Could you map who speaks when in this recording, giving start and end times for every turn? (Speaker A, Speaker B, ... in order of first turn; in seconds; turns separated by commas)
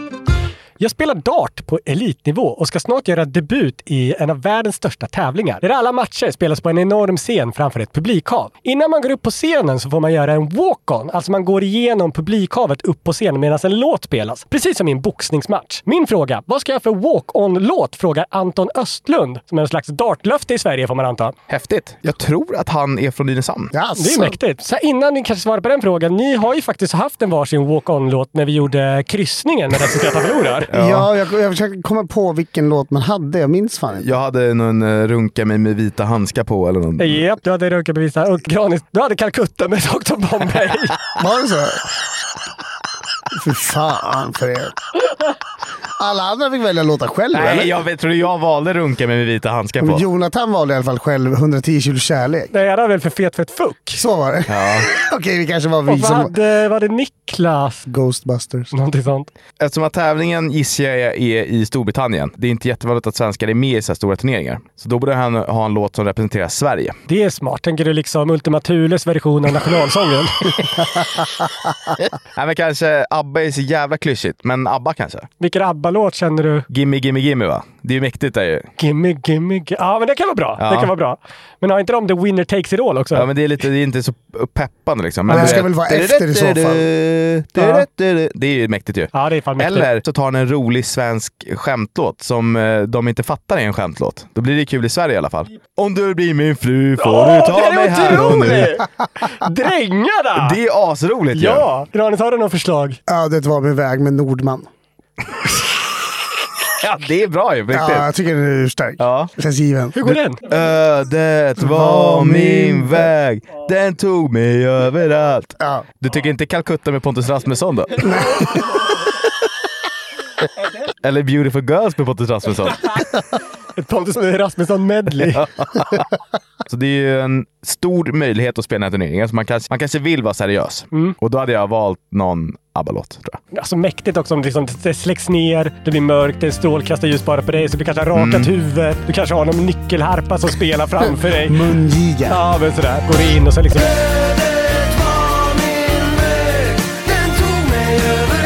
Speaker A: 0.8-21.3, Speaker B: 21.5-23.7, Speaker C: 23.7-24.4, Speaker A: 24.0-30.7, Speaker B: 30.7-31.1, Speaker C: 30.7-34.1, Speaker B: 34.0-37.2, Speaker A: 37.0-41.0, Speaker C: 41.2-41.9, Speaker C: 43.3-44.8, Speaker C: 46.0-47.8, Speaker B: 47.3-50.0, Speaker C: 49.8-52.5, Speaker A: 52.5-54.0, Speaker C: 54.0-56.4, Speaker B: 54.5-54.9, Speaker A: 55.9-57.9, Speaker C: 57.9-58.7, Speaker A: 58.7-59.3, Speaker B: 59.6-67.0, Speaker A: 67.1-70.5, Speaker B: 72.3-75.3, Speaker A: 75.4-76.7, Speaker B: 76.7-78.7, Speaker A: 78.8-83.2, Speaker B: 80.6-80.9, Speaker B: 83.1-98.8, Speaker C: 85.3-86.8, Speaker A: 87.6-87.8, Speaker A: 89.1-89.9, Speaker A: 97.0-100.6, Speaker B: 100.4-101.7, Speaker A: 101.3-103.0, Speaker C: 103.1-104.7, Speaker B: 106.8-108.1, Speaker C: 107.7-110.0, Speaker B: 109.0-109.3, Speaker A: 110.0-110.4, Speaker B: 110.0-118.1, Speaker C: 111.6-113.1, Speaker C: 115.6-115.9, Speaker C: 118.0-118.6, Speaker B: 121.0-123.0, Speaker A: 123.8-125.5, Speaker B: 125.4-126.0, Speaker B: 126.7-133.4, Speaker A: 133.5-141.6, Speaker B: 138.2-138.5, Speaker C: 141.5-142.4, Speaker A: 142.3-144.0